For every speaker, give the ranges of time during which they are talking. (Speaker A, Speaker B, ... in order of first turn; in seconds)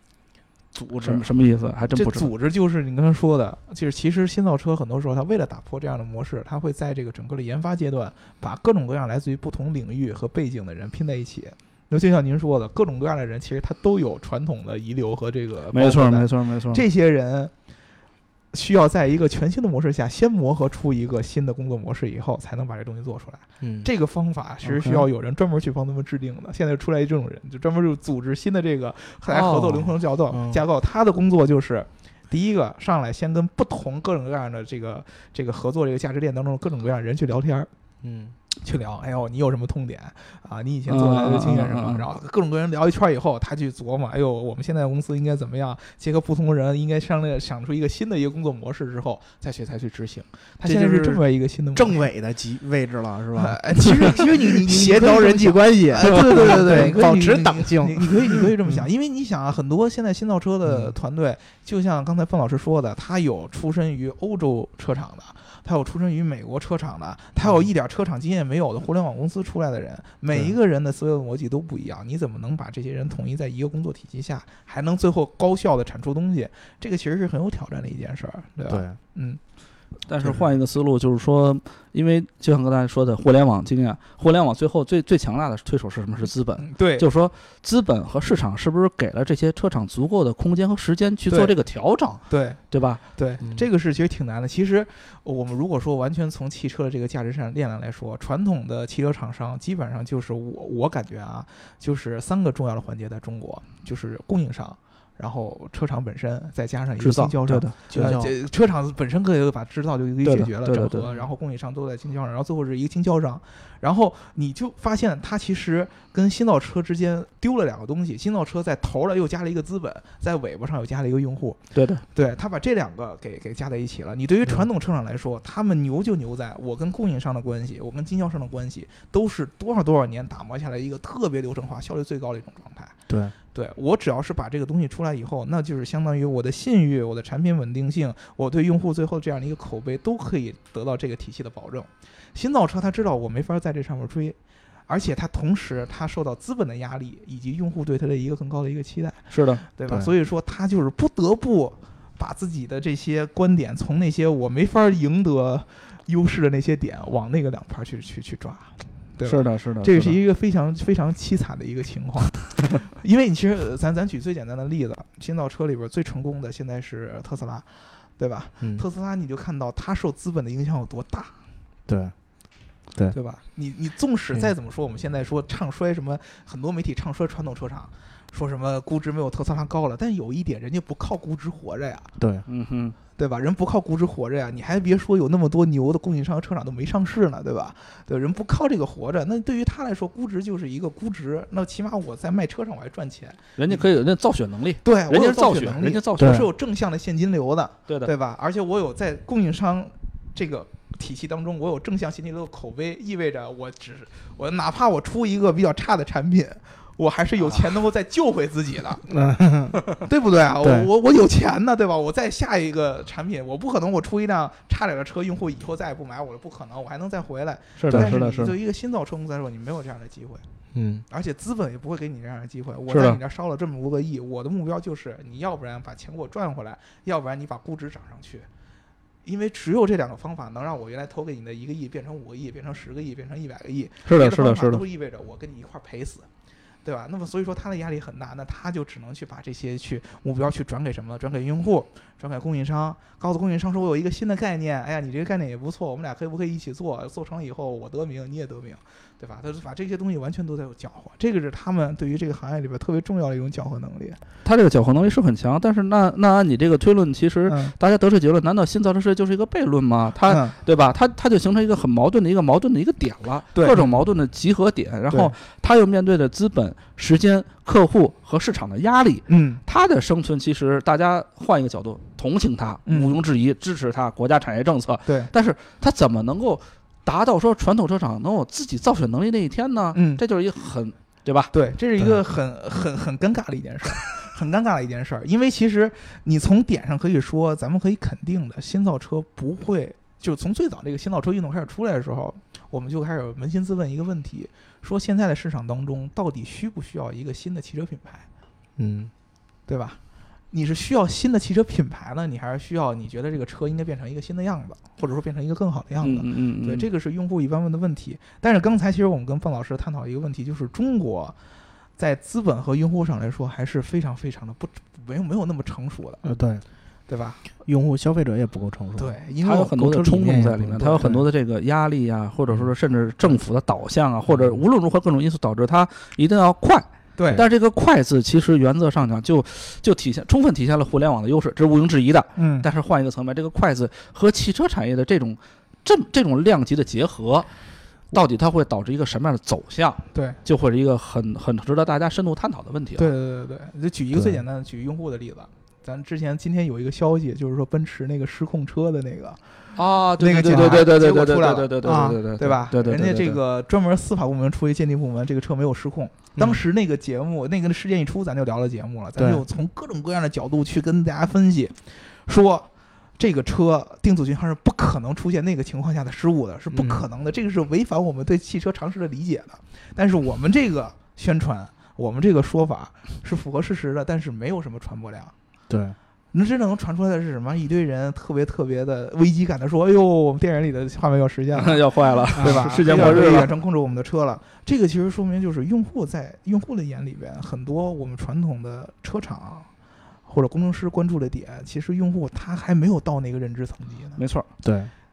Speaker A: 1.0-2.3, 15.7-16.8, 29.3-29.8, 40.9-42.0, 56.2-57.0, 80.0-93.0, 107.0-107.8, 110.2-111.1, 121.7-122.0, 149.3-149.6, 159.2-160.2, 182.5-182.9, 193.6-196.5, 217.8-218.5, 222.9-223.2, 234.1-234.8, 254.4-281.5, 306.0-306.9, 319.4-337.5, 338.1-343.0, 349.8-353.1, 381.6-383.5, 394.2-394.5
Speaker B: 1.9-17.5, 18.5-37.7, 38.6-52.0, 53.4-79.4, 86.6-87.0, 92.3-92.6, 93.1-121.6, 122.1-132.9, 133.5-144.4, 144.9-171.4, 173.1-182.1, 183.2-193.8, 194.8-209.2, 209.9-220.4, 221.1-228.5, 229.2-236.3, 236.8-254.2, 257.5-257.7, 260.2-260.6, 263.5-264.0, 265.1-265.3, 269.3-269.6, 272.9-273.2, 275.1-275.3, 279.9-280.2, 281.5-298.2, 299.7-300.0, 300.5-311.4, 312.0-316.2, 317.1-317.4, 319.0-321.1, 327.2-327.4, 332.4-332.7, 343.0-349.4, 350.2-375.3, 376.3-389.7, 390.2-394.2
Speaker C: 23.6-23.9, 30.3-30.6, 38.0-38.3, 50.6-51.2, 51.7-58.8, 60.7-60.9, 78.7-79.0, 107.9-108.3, 133.1-133.3, 171.9-172.1, 182.2-182.4, 196.2-196.5, 209.1-209.8, 210.6-210.9, 217.9-218.2, 220.7-221.0, 298.8-299.1, 316.2-316.6, 317.6-319.1, 320.1-321.2, 324.3-324.6, 344.1-344.4, 350.5-350.8, 351.8-352.2, 352.9-353.4, 359.2-359.4, 366.7-367.0, 375.7-375.9, 382.4-383.4, 394.6-394.9